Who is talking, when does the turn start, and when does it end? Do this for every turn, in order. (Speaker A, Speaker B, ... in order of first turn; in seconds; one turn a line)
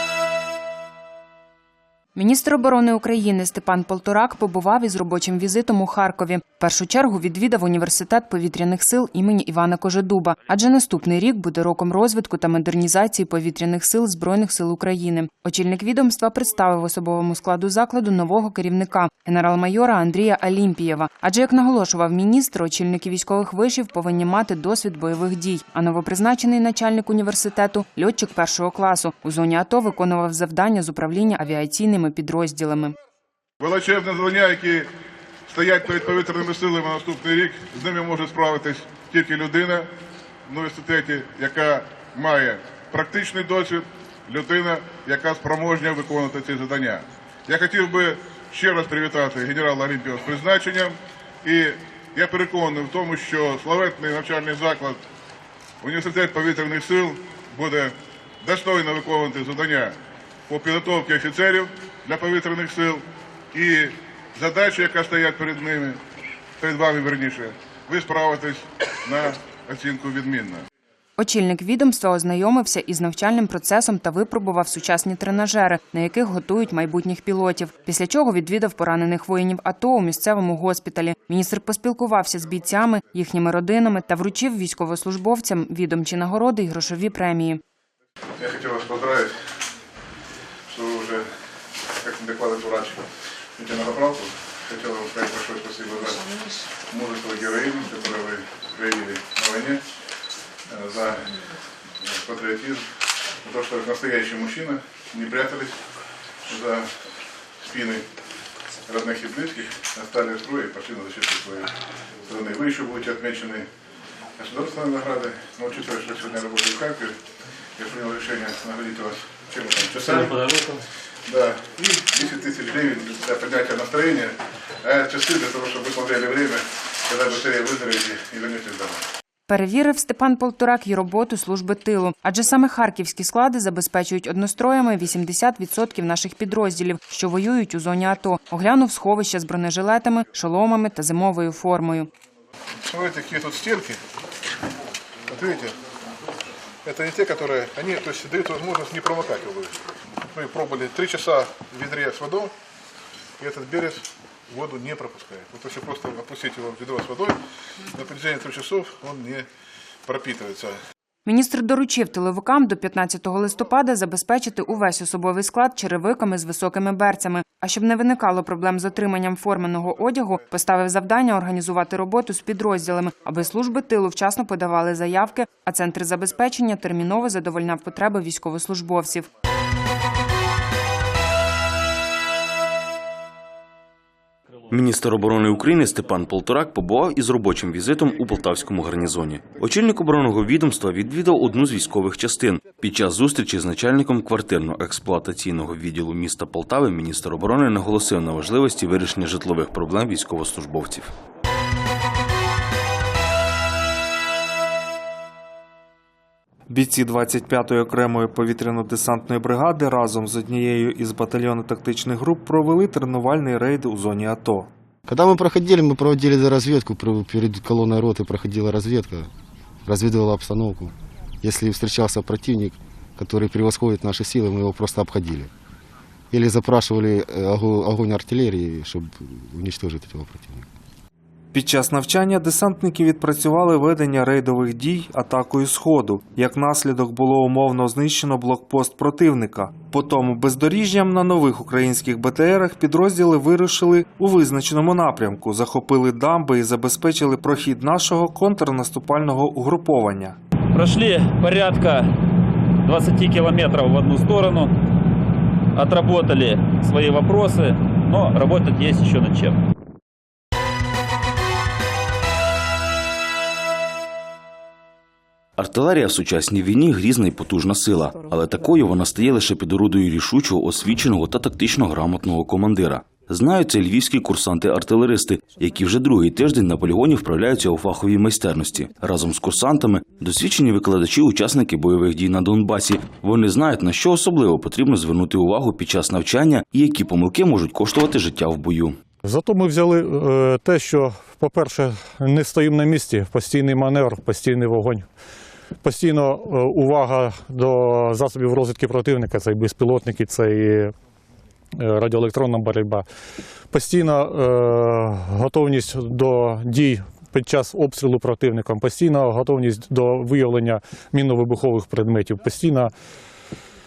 Speaker A: 2.1-33.0
Speaker B: 33.6-34.9
Speaker B: 35.5-39.9
Speaker B: 40.5-55.0
Speaker B: 55.8-57.9
Speaker B: 58.4-59.9
Speaker B: 60.5-63.0
Speaker B: 63.5-66.0
Speaker B: 66.6-70.6
Speaker A: 71.2-87.6
Speaker B: 88.4-89.3
Speaker B: 90.7-91.3
Speaker B: 92.0-93.0
Speaker B: 93.6-96.2
Speaker B: 96.9-99.8
Speaker B: 100.7-101.3
Speaker B: 102.0-102.9
Speaker B: 103.4-105.8
Speaker B: 106.5-107.0
Speaker B: 107.6-108.0
Speaker B: 108.9-111.7
Speaker B: 112.3-113.7
Speaker B: 114.4-117.2
Speaker B: 117.8-120.4
Speaker B: 121.3-129.0
Speaker A: 129.5-142.1
Speaker B: 142.8-144.0
Speaker B: 145.3-145.7
Speaker B: 146.8-149.7
Speaker B: 150.3-152.5
Speaker B: 153.4-159.4
Speaker B: 160.1-160.8
Speaker A: 161.2-179.3
Speaker C: 184.7-201.1
Speaker D: 206.7-214.7
Speaker E: 215.1-219.3
Speaker E: 219.8-225.5
Speaker E: 226.3-230.6
Speaker D: 231.5-250.4
Speaker F: 250.7-252.1
Speaker F: 252.8-254.7
Speaker F: 255.7-259.6
Speaker C: 265.6-289.0
Speaker G: 289.2-295.1
Speaker G: 295.8-300.9
Speaker G: 301.8-303.1
Speaker G: 303.7-312.9